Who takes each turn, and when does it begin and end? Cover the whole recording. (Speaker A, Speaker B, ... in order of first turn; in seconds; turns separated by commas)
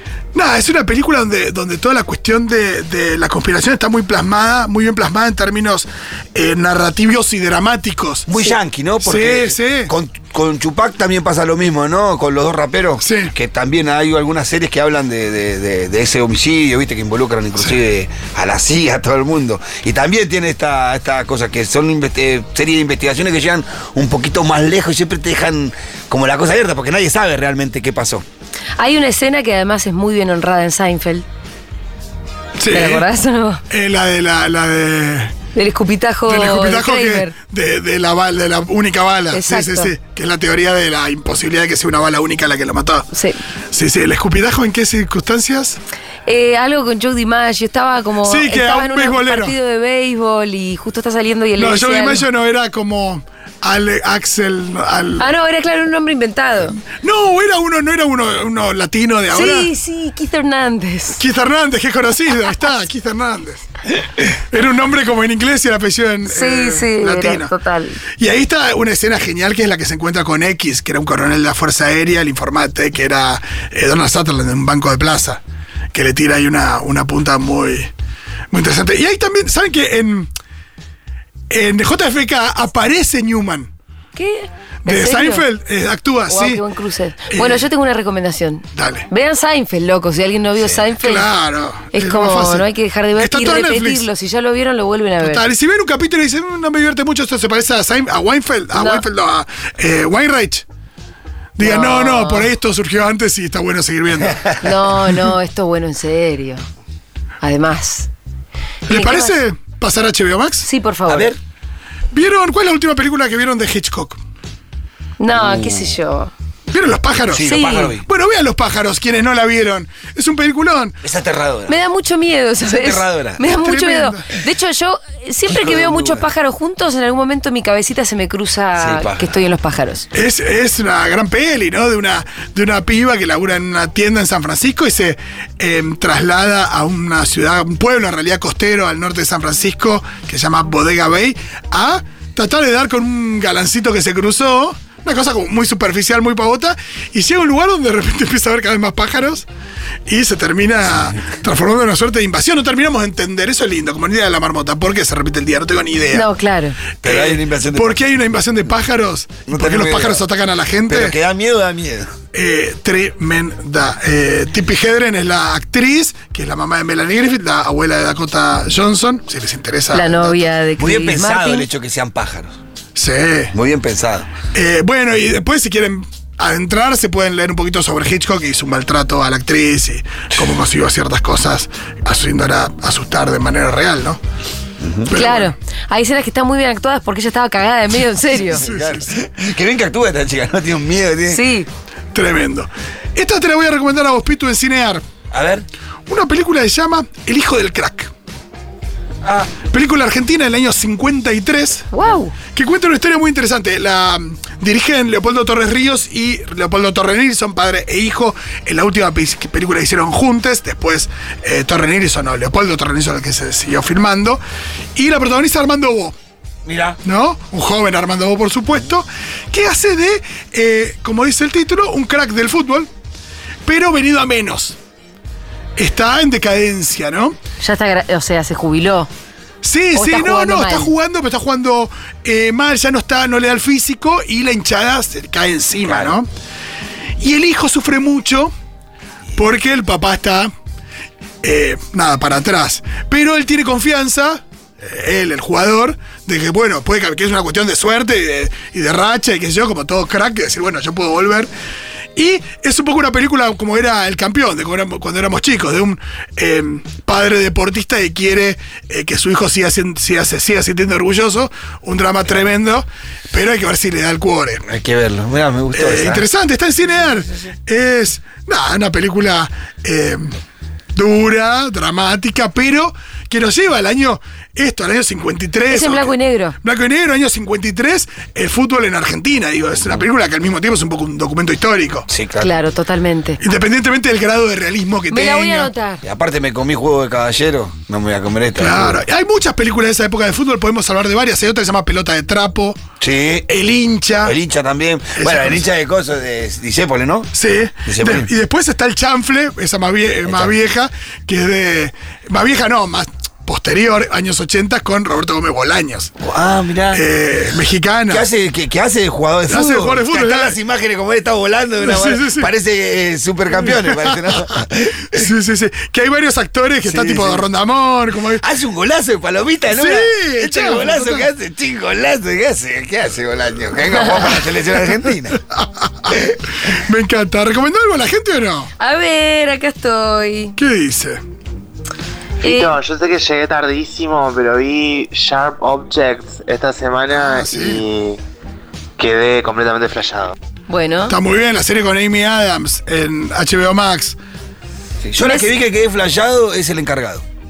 Speaker A: 0.3-9.9, Speaker B: 8.3-28.2, Speaker A: 13.0-13.3, Speaker C: 28.8-31.3, Speaker A: 32.6-33.1, Speaker C: 32.7-33.6, Speaker A: 33.7-35.4, Speaker C: 35.5-37.3, Speaker A: 36.3-43.1, Speaker C: 39.3-39.9, Speaker C: 43.1-43.4, Speaker A: 43.7-45.8, Speaker C: 46.2-52.3, Speaker A: 48.2-49.5, Speaker A: 51.6-55.3, Speaker C: 55.2-56.8, Speaker A: 57.0-59.7, Speaker C: 59.3-61.2, Speaker A: 61.2-63.7, Speaker A: 64.2-67.5, Speaker C: 66.3-68.0, Speaker A: 68.2-75.4, Speaker A: 75.9-77.9, Speaker A: 78.5-80.3, Speaker A: 81.5-83.7, Speaker C: 84.2-85.4, Speaker A: 84.8-86.6, Speaker C: 86.3-91.3, Speaker A: 87.3-87.7, Speaker A: 88.8-89.1, Speaker A: 91.0-94.1, Speaker C: 91.9-95.5, Speaker A: 95.2-100.7, Speaker C: 98.7-99.0, Speaker A: 101.6-105.1, Speaker C: 101.6-102.5, Speaker C: 104.6-106.6, Speaker C: 107.4-108.1, Speaker C: 108.9-109.4, Speaker A: 108.9-110.7, Speaker C: 110.6-111.3, Speaker B: 111.1-111.4, Speaker A: 112.1-114.2, Speaker C: 115.2-116.3, Speaker B: 115.3-115.9, Speaker A: 116.7-121.0, Speaker B: 117.3-118.1, Speaker C: 117.4-117.9, Speaker B: 121.0-121.8, Speaker C: 121.7-130.1, Speaker B: 122.6-123.4, Speaker A: 123.4-124.3, Speaker B: 125.5-126.3, Speaker B: 128.8-129.3, Speaker A: 130.1-149.5, Speaker A: 150.1-156.3, Speaker C: 156.1-156.8, Speaker A: 157.0-161.2, Speaker B: 157.0-158.0, Speaker B: 159.5-160.3, Speaker B: 160.9-162.1, Speaker A: 162.3-170.5, Speaker C: 169.9-171.7, Speaker B: 170.8-172.6, Speaker A: 172.9-173.5, Speaker B: 173.5-174.3, Speaker A: 174.5-184.2, Speaker B: 184.8-185.1, Speaker A: 185.1-185.5, Speaker C: 185.1-188.6, Speaker A: 188.5-189.1, Speaker B: 188.5-191.4, Speaker C: 191.3-191.7, Speaker A: 192.1-195.0, Speaker B: 195.3-195.7, Speaker A: 196.1-198.1, Speaker B: 199.2-199.5, Speaker A: 199.5-201.9, Speaker C: 201.9-202.3, Speaker A: 202.5-214.4, Speaker A: 215.0-216.2, Speaker B: 216.7-217.0, Speaker A: 217.0-222.9, Speaker A: 223.7-224.8, Speaker A: 225.8-227.4, Speaker C: 227.6-229.1, Speaker A: 229.6-236.3, Speaker C: 229.9-230.9, Speaker B: 235.9-236.2, Speaker A: 237.2-238.5, Speaker A: 239.4-240.5, Speaker A: 241.4-251.5, Speaker A: 252.2-264.6, Speaker B: 264.6-266.2, Speaker A: 265.7-270.3, Speaker A: 270.9-282.1, Speaker C: 275.7-276.6, Speaker B: 282.1-282.5, Speaker C: 282.4-283.4, Speaker A: 283.4-285.7, Speaker C: 285.1-286.0, Speaker B: 286.0-289.0, Speaker A: 288.6-292.8, Speaker B: 293.0-293.5, Speaker A: 293.5-294.4, Speaker B: 294.2-297.3, Speaker A: 295.1-295.6, Speaker A: 297.3-306.1, Speaker B: 297.9-298.3, Speaker B: 300.2-300.6, Speaker B: 306.2-307.0, Speaker A: 306.9-308.3, Speaker B: 308.1-315.3, Speaker A: 309.5-310.6, Speaker A: 311.8-312.5, Speaker A: 313.6-314.3, Speaker A: 315.1-318.4, Speaker B: 316.8-317.5, Speaker B: 318.4-325.4, Speaker A: 319.7-321.3, Speaker A: 325.5-328.7, Speaker C: 328.8-330.6, Speaker A: 330.6-331.2, Speaker C: 332.4-332.8, Speaker D: 332.4-338.2, Speaker A: 337.1-337.8, Speaker D: 339.0-340.4, Speaker C: 340.7-341.2, Speaker A: 341.1-344.2, Speaker B: 345.0-347.2, Speaker C: 345.2-345.5